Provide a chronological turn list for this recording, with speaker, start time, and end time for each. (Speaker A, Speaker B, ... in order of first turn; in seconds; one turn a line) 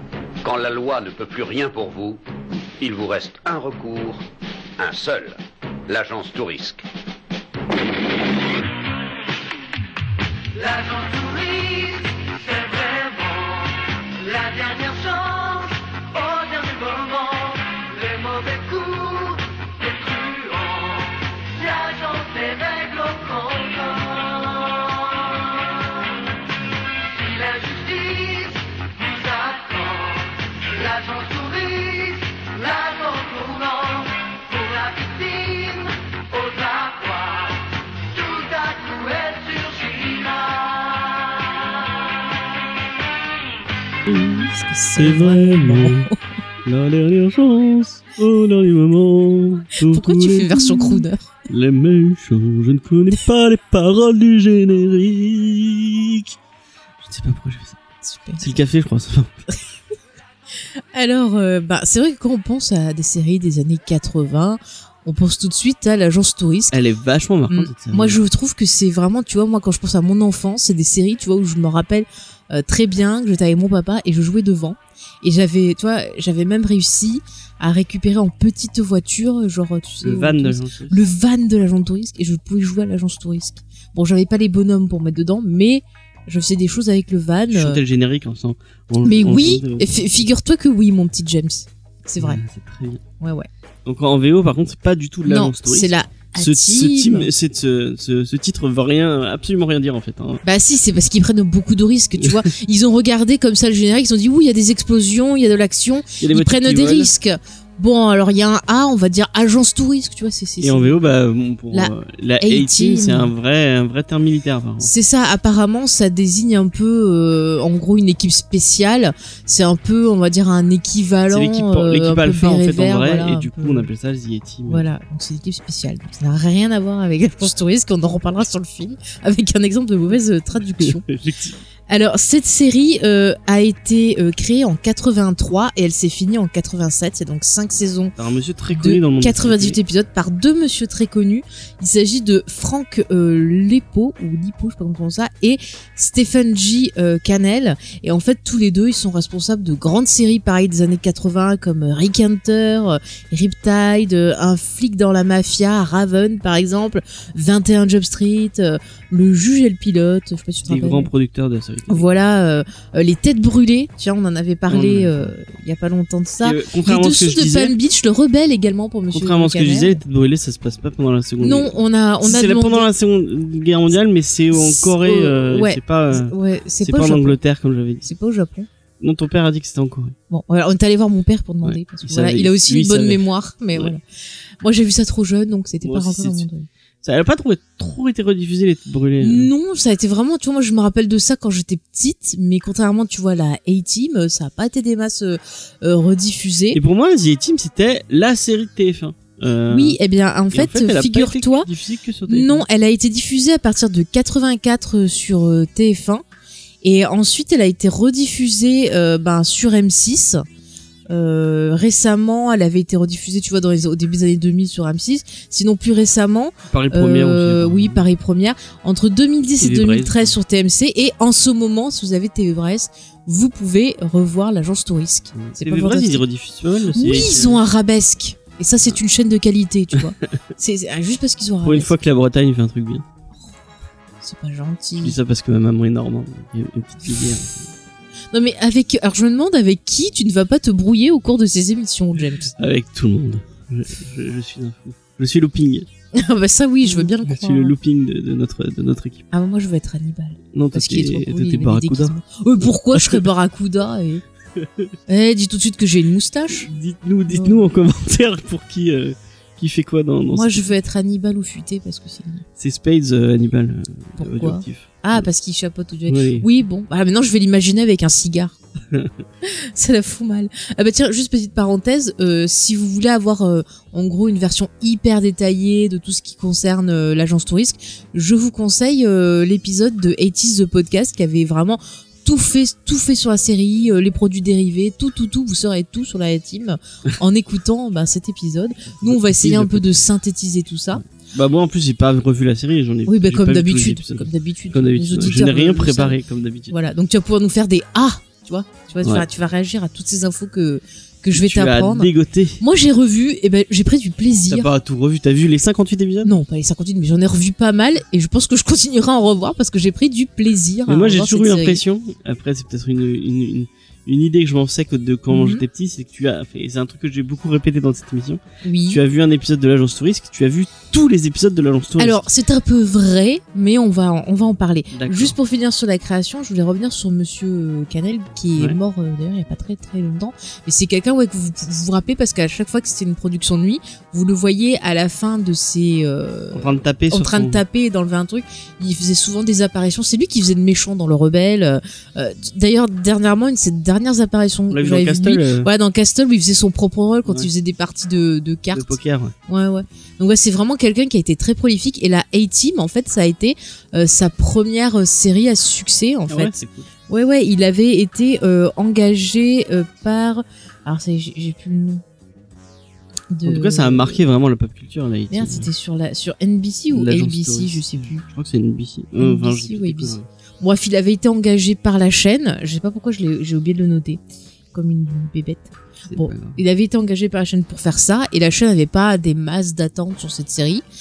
Speaker A: 0.4-2.2
Speaker A: 2.8-4.2
Speaker A: 4.8-6.8
Speaker B: 10.5-25.8
Speaker B: 27.1-42.1
Speaker C: 44.1-46.1
Speaker D: 44.1-46.2
Speaker C: 46.6-56.3
Speaker D: 49.8-51.3
Speaker C: 57.0-57.8
Speaker D: 58.0-58.5
Speaker C: 58.4-59.5
Speaker D: 60.9-66.8
Speaker C: 66.7-68.2
Speaker D: 67.5-87.8
Speaker C: 80.0-81.0
Speaker C: 87.5-90.2
Speaker D: 89.0-92.4
Speaker C: 92.2-93.0
Speaker D: 93.2-93.5
Speaker C: 93.8-100.4
Speaker D: 95.2-97.3
Speaker D: 100.4-111.0
Speaker C: 106.2-107.1
Speaker C: 110.6-114.9
Speaker D: 111.7-113.3
Speaker D: 114.8-123.9
Speaker C: 121.3-124.8
Speaker D: 124.7-131.1
Speaker C: 130.8-131.6
Speaker D: 131.9-138.1
Speaker C: 138.2-139.8
Speaker D: 138.7-161.1
Speaker C: 160.6-162.1
Speaker D: 161.9-170.0
Speaker C: 164.7-165.3
Speaker C: 166.4-167.7
Speaker C: 169.1-178.1
Speaker D: 171.4-172.9
Speaker D: 174.5-177.4
Speaker D: 178.0-178.7
Speaker C: 179.0-180.2
Speaker D: 180.3-184.0
Speaker C: 181.6-183.2
Speaker D: 184.6-186.7
Speaker C: 185.8-186.4
Speaker C: 187.0-189.5
Speaker D: 189.2-196.8
Speaker C: 196.7-200.0
Speaker D: 199.7-201.7
Speaker C: 200.5-202.7
Speaker D: 202.3-206.2
Speaker D: 206.8-210.4
Speaker D: 211.1-226.2
Speaker C: 216.7-218.0
Speaker C: 219.6-220.3
Speaker C: 225.3-227.6
Speaker D: 226.9-231.9
Speaker C: 231.6-233.0
Speaker D: 234.2-235.2
Speaker C: 235.0-237.7
Speaker D: 238.3-242.5
Speaker C: 242.6-245.9
Speaker D: 246.1-247.7
Speaker C: 246.8-249.2
Speaker D: 249.3-254.2
Speaker C: 250.5-252.1
Speaker C: 252.9-253.2
Speaker C: 254.6-254.9
Speaker D: 255.1-256.7
Speaker C: 256.6-260.7
Speaker D: 257.3-257.6
Speaker D: 260.3-262.4
Speaker C: 262.6-265.3
Speaker D: 264.2-268.6
Speaker C: 266.1-266.5
Speaker C: 268.9-269.1
Speaker D: 269.4-291.0
Speaker C: 289.0-289.9
Speaker C: 290.9-296.7
Speaker D: 293.1-296.2
Speaker D: 296.7-304.7
Speaker C: 301.3-302.6
Speaker C: 304.5-306.3
Speaker D: 306.2-311.8
Speaker C: 310.9-322.2
Speaker D: 315.3-315.6
Speaker D: 318.6-319.0
Speaker D: 322.0-356.5
Speaker C: 324.9-325.3
Speaker C: 336.5-337.6
Speaker C: 344.7-345.7
Speaker C: 348.7-349.3
Speaker C: 356.3-356.9
Speaker D: 357.1-362.0
Speaker D: 363.3-364.2
Speaker C: 363.4-365.7
Speaker D: 365.3-368.2
Speaker C: 366.9-370.3
Speaker D: 369.2-374.2
Speaker D: 374.7-380.8
Speaker C: 376.1-376.6